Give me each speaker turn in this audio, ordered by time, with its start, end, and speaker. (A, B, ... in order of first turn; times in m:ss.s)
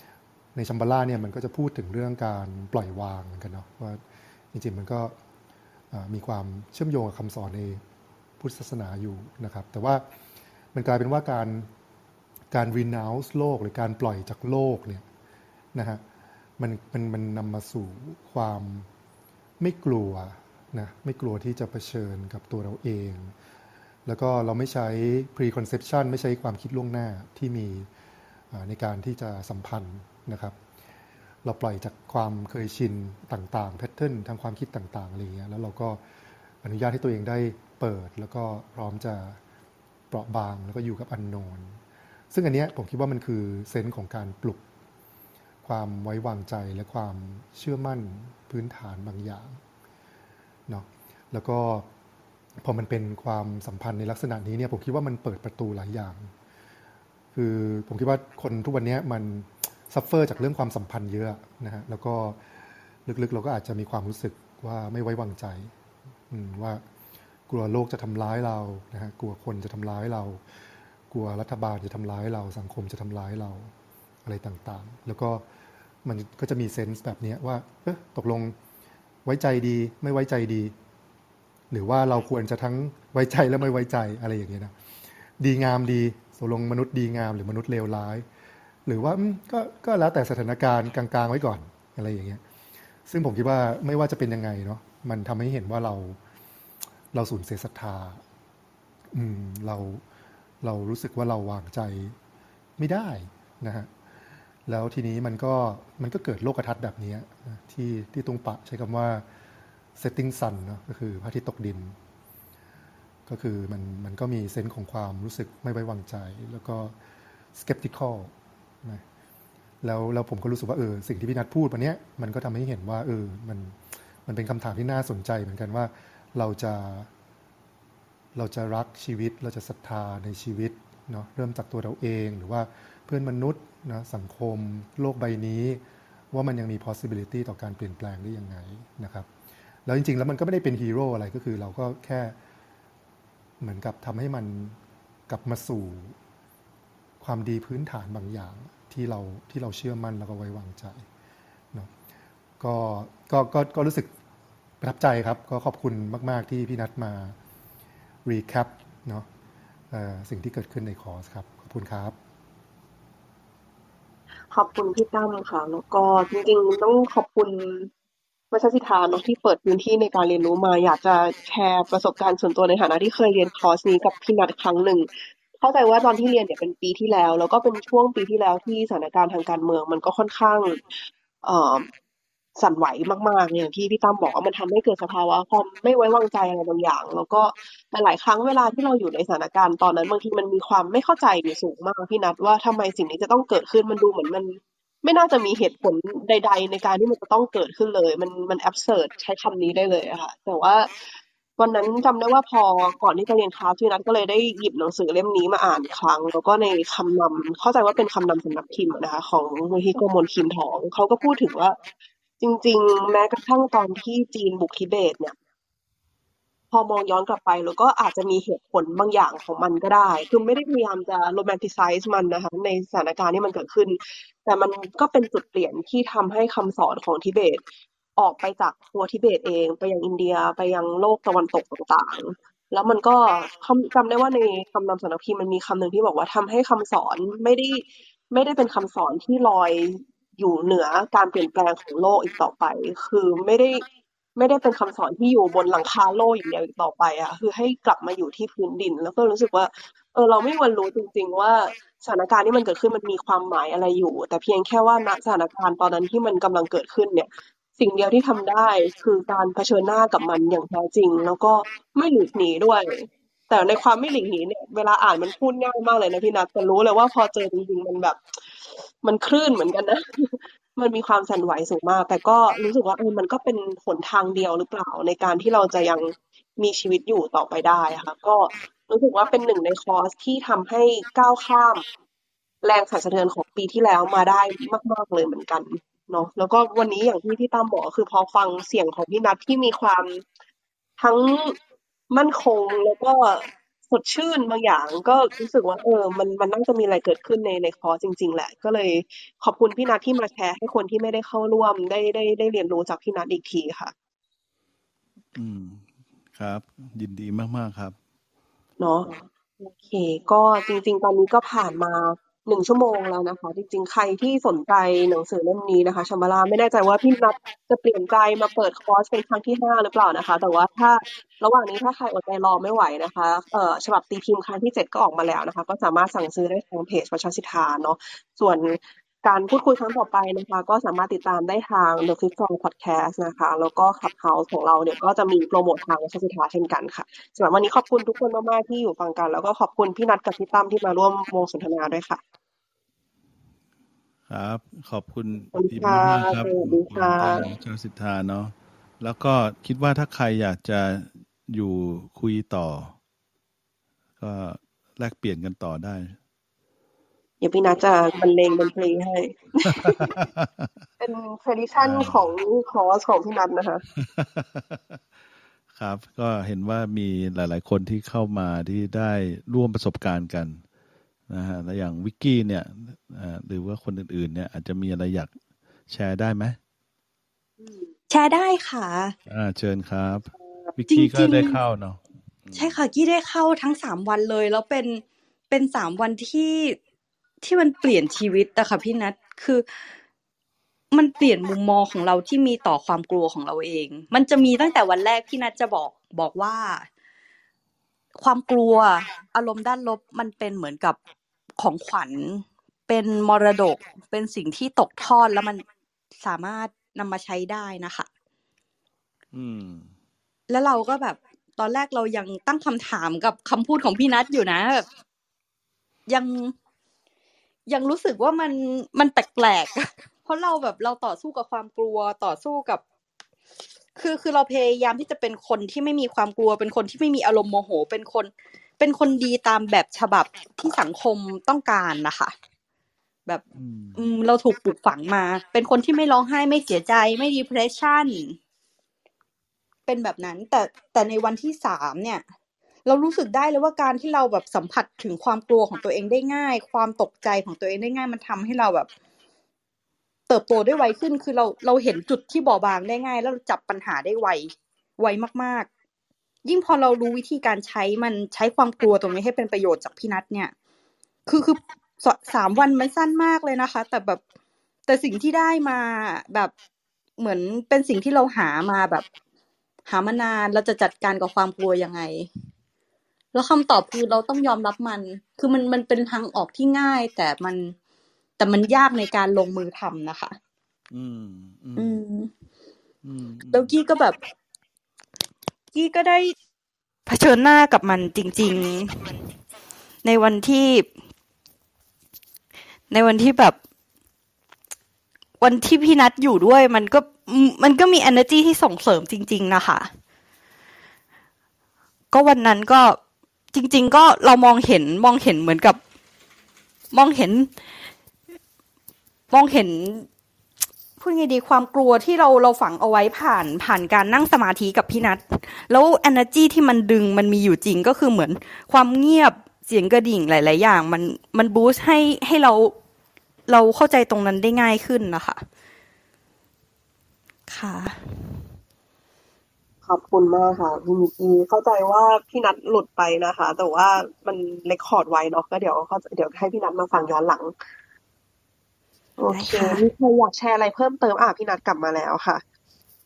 0:00.6-0:04.0 A
0:04.5-0:05.2 A
0:05.9-0:07.8 A
0:08.4-0:10.0 A
0:10.7-0:11.7 A
0:12.5-0:15.1 A
0:15.8-0:16.0 A
0:16.6-0:18.9 A
0:19.6-0:23.4 A
0:24.1-0:27.9 A
0:28.5-0:30.6 A
0:31.4-0:36.0 A
0:36.6-0:39.4 A
0:40.1-0:44.6 A
0:45.6-0:49.6 A
0:50.7-0:51.9 A
0:52.6-0:56.3 A
0:57.3-1:02.6 A
1:03.1-1:05.7 A
1:06.3-1:06.8 A
1:07.5-1:10.4 A
1:11.1-1:13.7 A
1:14.2-1:15.4 A
1:16.0-1:18.6 A
1:19.2-1:20.8 A
1:21.7-1:24.7 A
1:25.4-1:28.3 A
1:28.9-1:32.4 A
1:33.1-1:36.2 A
1:37.1-1:38.2 A
1:39.1-1:40.0 A
1:40.6-1:42.2 A
1:42.8-1:43.9 A
1:44.7-1:49.3 A
1:50.0-1:52.0 A
1:53.3-1:57.0 A
1:57.6-1:59.0 A
1:59.8-2:07.1 A
2:08.4-2:19.3 A
2:19.9-2:22.4 A
2:23.6-2:24.8 A
2:25.3-2:26.2 A
2:27.2-2:31.1 A
2:32.6-2:34.1 A
2:34.8-2:37.4 A
2:38.2-2:39.3 A
2:39.9-2:42.2 A
2:44.5-2:47.9 B
2:48.5-3:01.9 B
3:02.6-3:20.9 B
3:21.6-3:31.8 B
3:32.4-3:35.4 B
3:36.7-3:47.6 B
3:48.2-4:03.8 B
4:04.4-4:41.8 B
4:42.6-4:50.2 B
4:51.0-4:51.6 B
4:52.1-5:03.9 B
5:05.4-5:08.0 C
5:08.8-5:42.2 B
5:44.3-5:53.0 C
5:45.5-5:47.5 B
5:54.2-5:56.2 C
5:57.4-6:00.2 B
5:59.8-6:00.7 C
6:01.0-6:03.8 B
6:01.8-6:02.2 C
6:04.0-6:05.0 C
6:05.7-6:10.6 C
6:11.3-6:15.3 C
6:15.9-6:16.6 C
6:18.1-6:19.2 D
6:19.3-6:22.8 C
6:20.9-6:21.6 D
6:22.5-6:26.8 D
6:27.4-6:29.6 D
6:30.9-6:36.9 D
6:38.2-6:41.0 D
6:41.6-6:45.6 D
6:46.2-6:48.1 D
6:49.3-6:49.9 C
6:50.5-6:54.9 D
6:56.1-6:56.5 D
6:57.7-7:02.8 D
7:04.0-7:12.3 D
7:13.6-7:14.0 C
7:14.0-7:18.4 D
7:19.9-7:22.2 D
7:22.9-7:28.9 D
7:30.3-7:35.7 D
7:36.5-7:40.5 D
7:41.3-7:44.2 D
7:44.9-7:46.5 D
7:47.2-7:49.1 D
7:49.9-7:52.3 D
7:53.3-7:57.7 D
7:58.4-8:00.4 D
8:00.9-8:02.0 C
8:01.8-8:02.3 D
8:03.0-8:03.8 C
8:03.5-8:04.2 D
8:05.7-8:06.3 D
8:07.1-8:09.2 D
8:10.0-8:10.9 D
8:12.9-8:13.6 D
8:15.4-8:19.9 D
8:22.1-8:23.0 D
8:23.5-8:25.8 D
8:26.9-8:27.5 D
8:29.3-8:30.1 D
8:31.0-8:42.8 D
8:43.5-8:45.4 D
8:47.5-8:48.4 D
8:49.9-8:57.5 B
8:59.2-9:02.4 B
8:59.3-8:59.8 D